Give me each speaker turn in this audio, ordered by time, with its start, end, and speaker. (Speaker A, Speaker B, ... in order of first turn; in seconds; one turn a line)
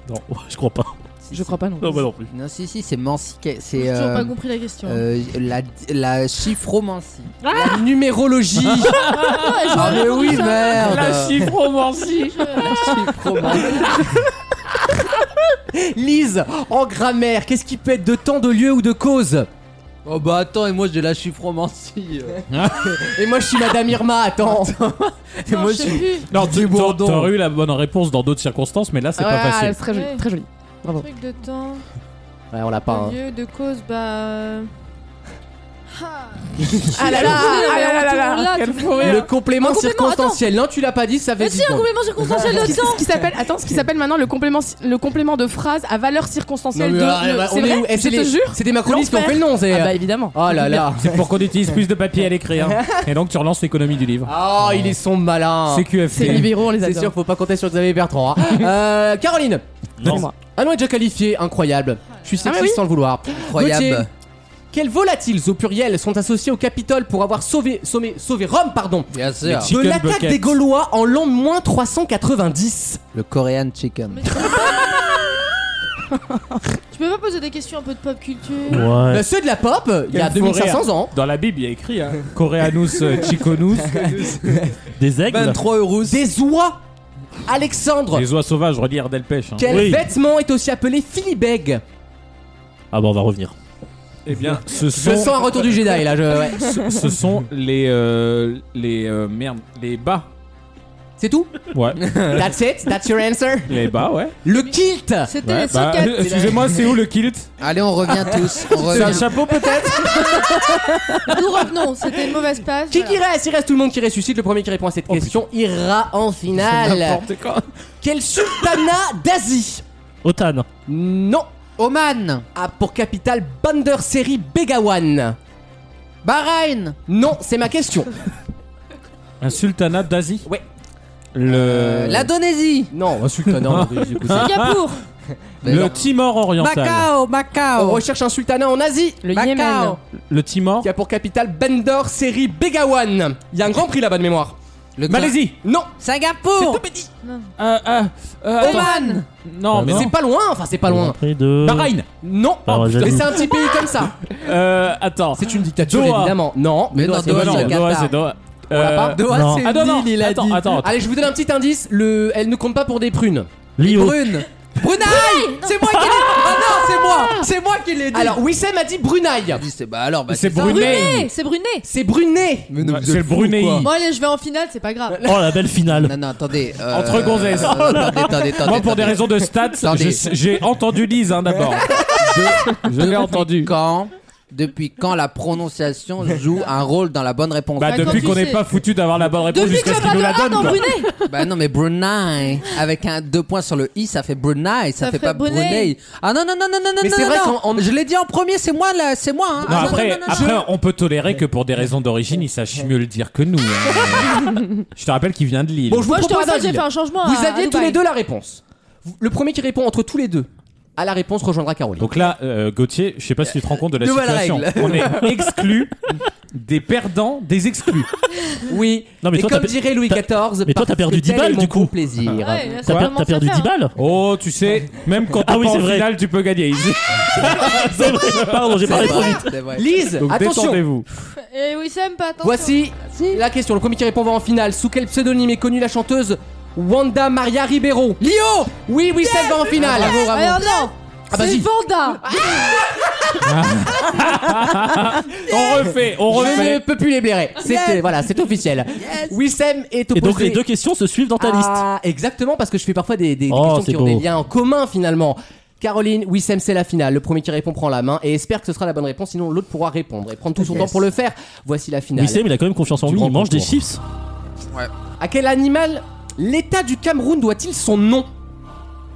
Speaker A: 0.1-1.0
Speaker B: 1.2-1.6
Speaker C: 1.3-2.1
Speaker A: 1.8-2.3
Speaker B: 2.3-7.8
Speaker D: 3.8-5.0
Speaker E: 7.4-7.8
Speaker F: 7.6-9.0
Speaker E: 8.7-13.7
Speaker D: 9.0-11.2
Speaker B: 9.7-11.5
Speaker D: 12.1-12.7
Speaker B: 12.6-14.0
Speaker F: 15.7-19.5
Speaker B: 20.1-22.4
Speaker E: 22.5-23.0
Speaker F: 22.9-24.8
Speaker B: 24.5-27.3
Speaker D: 25.5-26.3
Speaker F: 25.7-26.0
Speaker E: 26.3-29.8
Speaker C: 29.2-31.1
Speaker D: 29.9-30.2
Speaker D: 30.9-31.8
Speaker F: 32.5-33.2
Speaker D: 32.9-34.7
Speaker D: 35.9-40.4
Speaker F: 36.7-37.7
Speaker C: 36.9-39.2
Speaker E: 38.6-39.1
Speaker F: 39.0-42.8
Speaker D: 41.4-43.0
Speaker C: 42.5-50.8
Speaker F: 46.7-51.2
Speaker E: 50.7-54.9
Speaker F: 54.3-59.6
Speaker E: 55.7-56.6
Speaker C: 56.1-57.1
Speaker A: 60.0-60.2
Speaker C: 60.0-60.3
Speaker F: 60.5-64.1
Speaker C: 62.4-62.8
Speaker B: 63.4-64.1
Speaker F: 64.7-69.1
Speaker B: 69.1-69.7
Speaker E: 69.5-70.6
Speaker F: 69.6-73.0
Speaker B: 73.1-74.5
Speaker D: 74.1-75.2
Speaker D: 76.9-78.9
Speaker A: 78.7-79.3
Speaker F: 79.1-81.1
Speaker E: 80.1-84.6
Speaker F: 84.0-84.5
Speaker A: 85.0-85.7
Speaker B: 85.3-86.2
Speaker F: 86.0-86.8
Speaker F: 87.5-88.2
Speaker E: 88.1-89.9
Speaker F: 89.6-91.8
Speaker A: 89.7-90.0
Speaker A: 92.9-93.5
Speaker E: 94.3-100.3
Speaker F: 94.9-96.8
Speaker F: 101.2-101.5
Speaker E: 101.7-102.4
Speaker F: 102.2-103.8
Speaker E: 103.7-104.3
Speaker F: 104.4-105.3
Speaker D: 105.2-106.5
Speaker E: 105.4-107.5
Speaker B: 107.6-109.3
Speaker E: 108.6-110.7
Speaker F: 108.7-109.8
Speaker D: 111.3-113.2
Speaker F: 112.9-117.2
Speaker E: 115.1-115.4
Speaker E: 116.5-117.7
Speaker F: 118.0-119.8
Speaker A: 120.2-120.7
Speaker F: 120.9-121.5
Speaker B: 121.8-122.5
Speaker F: 122.5-125.4
Speaker B: 126.2-127.0
Speaker F: 127.1-128.1
Speaker E: 129.4-130.5
Speaker E: 131.3-132.3
Speaker B: 131.5-132.9
Speaker F: 132.9-134.5
Speaker E: 133.5-134.9
Speaker D: 134.3-135.0
Speaker B: 135.6-138.1
Speaker E: 135.6-137.1
Speaker F: 137.8-139.3
Speaker C: 139.2-140.0
Speaker B: 139.3-140.0
Speaker E: 140.3-140.9
Speaker F: 140.8-144.6
Speaker B: 145.0-145.4
Speaker E: 145.1-145.6
Speaker F: 145.6-145.9
Speaker B: 146.0-147.1
Speaker F: 146.6-146.8
Speaker D: 147.2-147.5
Speaker E: 147.6-150.1
Speaker D: 148.6-149.2
Speaker B: 148.6-149.2
Speaker A: 149.7-150.1
Speaker F: 149.9-151.2
Speaker A: 150.8-152.0
Speaker E: 151.6-152.1
Speaker F: 152.2-154.2
Speaker A: 152.7-153.4
Speaker E: 154.3-156.4
Speaker F: 155.4-157.8
Speaker B: 156.9-158.2
Speaker E: 157.2-161.0
Speaker F: 158.7-159.3
Speaker B: 159.0-160.8
Speaker A: 159.3-159.7
Speaker F: 160.8-163.5
Speaker A: 163.8-164.3
Speaker B: 163.8-168.4
Speaker F: 164.8-165.5
Speaker D: 165.1-166.0
Speaker F: 166.0-167.4
Speaker F: 168.1-169.7
Speaker B: 169.5-171.2
Speaker E: 170.3-171.3
Speaker D: 170.6-171.9
Speaker F: 171.8-172.7
Speaker B: 172.7-173.9
Speaker E: 172.8-173.9
Speaker D: 173.8-175.2
Speaker F: 175.1-175.5
Speaker A: 175.2-176.2
Speaker B: 175.9-180.2
Speaker E: 176.9-182.0
Speaker B: 182.2-188.4
Speaker E: 182.8-183.7
Speaker E: 187.8-190.9
Speaker D: 187.8-188.6
Speaker D: 189.5-191.1
Speaker B: 191.3-200.6
Speaker D: 195.0-195.9
Speaker F: 197.0-197.9
Speaker E: 199.7-206.1
Speaker F: 199.7-200.7
Speaker F: 205.9-212.1
Speaker D: 206.1-208.0
Speaker E: 212.0-215.9
Speaker B: 213.4-215.6
Speaker E: 216.5-218.1
Speaker F: 218.7-222.8
Speaker A: 219.2-221.9
Speaker D: 222.4-223.7
Speaker A: 222.8-223.9
Speaker E: 224.0-228.8
Speaker A: 225.4-226.1
Speaker A: 227.6-229.6
Speaker B: 228.8-230.2
Speaker F: 228.9-230.8
Speaker E: 230.2-231.1
Speaker D: 231.4-232.8
Speaker F: 232.4-240.4
Speaker B: 233.2-233.4
Speaker B: 238.2-238.7
Speaker B: 239.4-240.6
Speaker D: 239.8-242.2
Speaker F: 241.3-243.4
Speaker E: 243.4-246.8
Speaker F: 245.5-250.6
Speaker B: 247.6-248.2
Speaker B: 248.9-249.4
Speaker A: 250.1-251.8
Speaker F: 251.4-262.5
Speaker A: 253.5-254.3
Speaker B: 260.6-261.0
Speaker A: 262.1-264.0
Speaker E: 263.1-263.5
Speaker F: 263.2-263.6
Speaker F: 265.2-268.3